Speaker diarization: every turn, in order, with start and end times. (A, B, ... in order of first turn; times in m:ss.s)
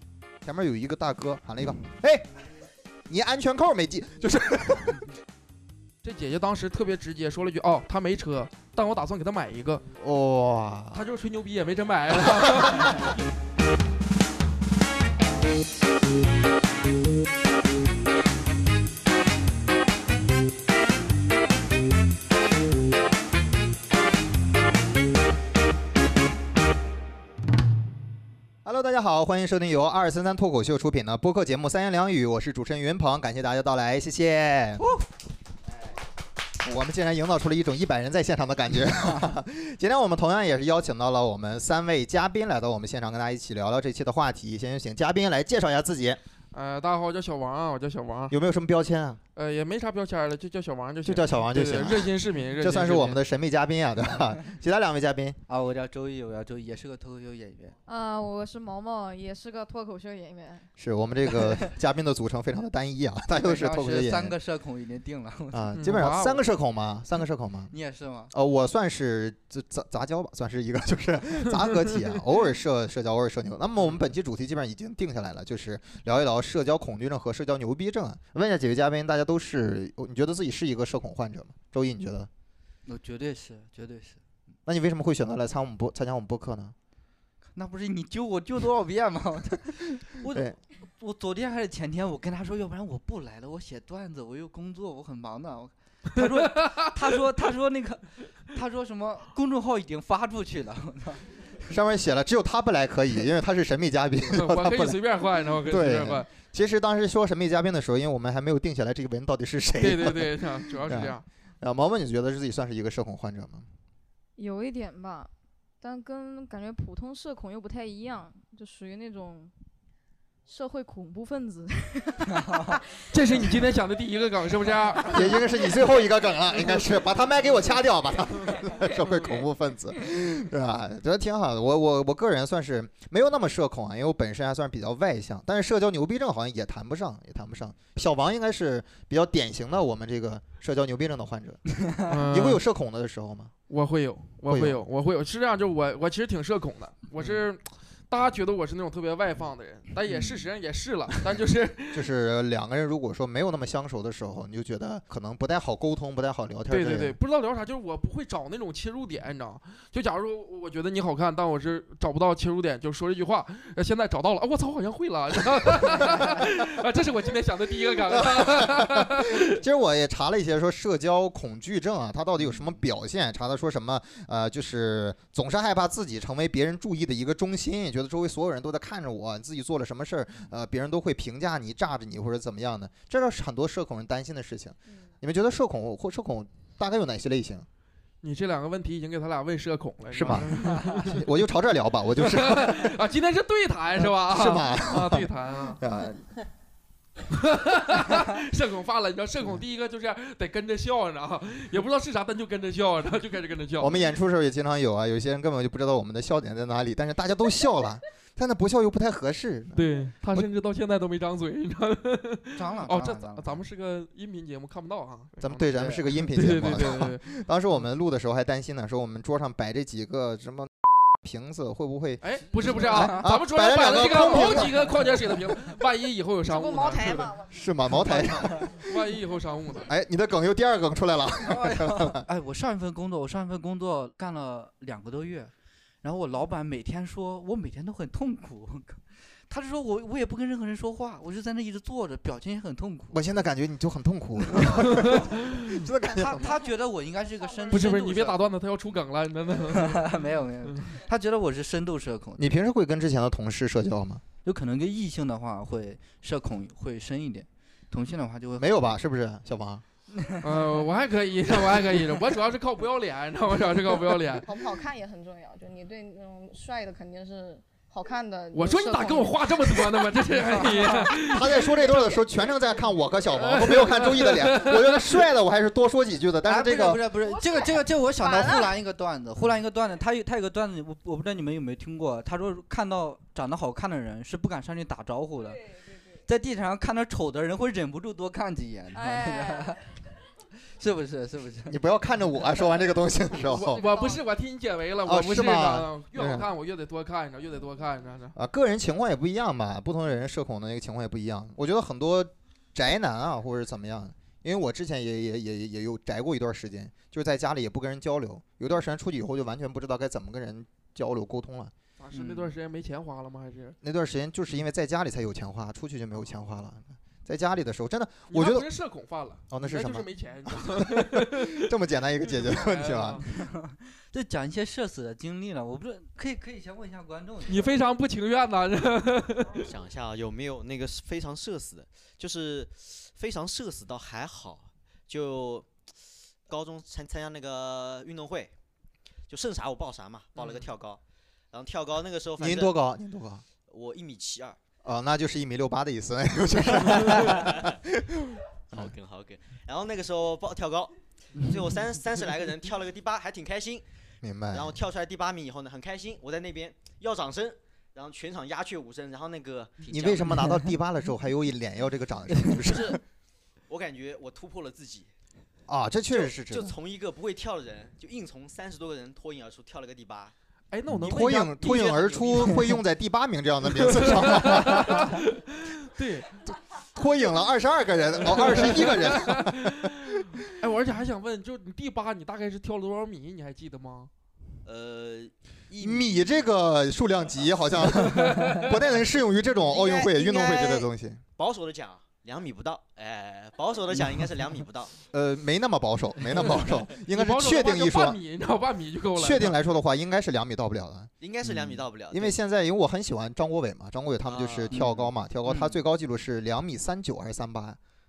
0:00.4-0:02.3 A
0:03.1-0:05.1 A
0:06.0-0:09.8 B
0:10.0-0:11.1 A
0:10.9-0:13.1 B
0:12.3-0:12.9 A
0:28.6-0:34.8 A
0:36.6-0:46.2 A
0:46.5-0:48.3 B
0:48.3-0:49.2 A
0:49.4-0:53.2 B
0:51.0-0:55.4 A
0:55.5-0:57.8 C
0:57.9-1:00.7 D
1:00.8-1:04.4 A
1:03.4-1:05.7 C
1:05.5-1:07.7 A
1:05.7-1:06.4 B
1:07.7-1:08.3 C
1:08.3-1:22.3 A
1:22.8-1:24.2 C
1:24.6-1:26.7 A
1:27.6-1:41.3 C
1:36.4-1:36.9 B
1:41.7-1:45.0 A
1:44.3-1:46.3 B
1:45.6-1:53.7 A
1:49.8-1:51.2 B
1:54.4-1:55.3 D
1:55.8-1:59.5 D
2:00.5-2:03.1 D
2:02.4-2:02.7 C
2:03.1-2:05.7 B
2:05.1-2:23.5 A
2:22.0-2:22.6 B
2:23.7-2:32.1 B
2:24.5-2:24.8 A
2:30.1-2:30.4 C
2:31.9-2:37.2 A
2:36.7-2:49.6 B
2:48.0-3:07.7 A
3:08.2-3:11.2 B
3:10.1-3:13.0 A
3:12.2-3:15.8 B
3:14.0-3:16.3 A
3:17.3-3:24.0 B
3:23.8-3:30.5 A
3:29.7-3:35.6 B
3:32.5-3:33.6 C
3:35.4-3:42.2 A
3:36.1-3:37.4 B
3:42.2-3:47.4 B
3:42.5-3:43.3 C
3:42.9-3:44.8 A
3:44.1-3:45.0 C
3:46.4-3:47.5 D
3:47.5-3:48.9 A
3:48.1-3:48.7 C
3:48.7-3:49.9 B
3:49.8-3:52.2 A
3:51.4-3:55.5 C
3:56.0-4:03.2 C
4:03.1-4:06.6 A
4:04.8-4:05.6 B
4:06.1-4:08.5 C
4:07.7-4:10.9 B
4:09.7-4:12.5 C
4:12.4-4:14.2 A
4:14.4-4:18.8 C
4:18.6-4:19.8 A
4:20.1-4:20.4 C
4:20.4-4:24.6 B
4:24.4-4:30.0 D
4:28.5-4:31.9 B
4:30.6-4:31.0 C
4:31.3-4:37.0 A
4:33.4-4:35.1 B
4:36.4-4:45.6 C
4:37.2-4:38.8 D
4:45.5-4:46.2 D
4:46.2-4:49.8 C
4:48.9-4:49.8 D
4:50.7-4:51.8 C
4:51.7-4:53.9 A
4:53.4-4:58.4 B
4:53.6-4:54.2 D
4:55.0-4:56.5 A
4:58.3-5:12.6 A
5:12.0-5:13.8 B
5:13.8-5:18.7 A
5:18.3-5:21.7 B
5:19.5-5:23.2 A
5:22.3-5:23.3 B
5:23.3-5:27.7 C
5:27.5-5:29.7 B
5:29.6-5:35.7 E
5:36.5-5:38.5 E
5:39.3-5:41.0 E
5:41.5-5:42.7 E
5:42.4-5:43.4 A
5:43.7-5:44.6 E
5:44.8-5:48.9 A
5:47.1-5:47.7 E
5:48.7-5:53.8 E
5:54.2-5:54.8 A
5:54.5-6:00.4 E
5:59.9-6:03.0 A
6:00.3-6:00.6 C
6:02.6-6:03.0 E
6:03.7-6:05.1 E
6:05.7-6:06.7 A
6:06.1-6:10.3 E
6:10.7-6:12.8 B
6:10.9-6:15.2 A
6:13.7-6:16.4 B
6:16.9-6:20.4 A
6:18.2-6:24.1 B
6:24.6-6:26.3 E
6:25.8-6:31.2 A
6:28.0-6:28.8 B
6:29.7-6:30.8 E
6:30.2-6:30.7 D
6:31.4-6:34.9 E
6:35.1-6:38.2 A
6:37.1-6:39.6 B
6:39.2-6:47.8 A
6:41.2-6:42.4 E
6:44.2-6:44.8 E
6:44.7-6:45.1 C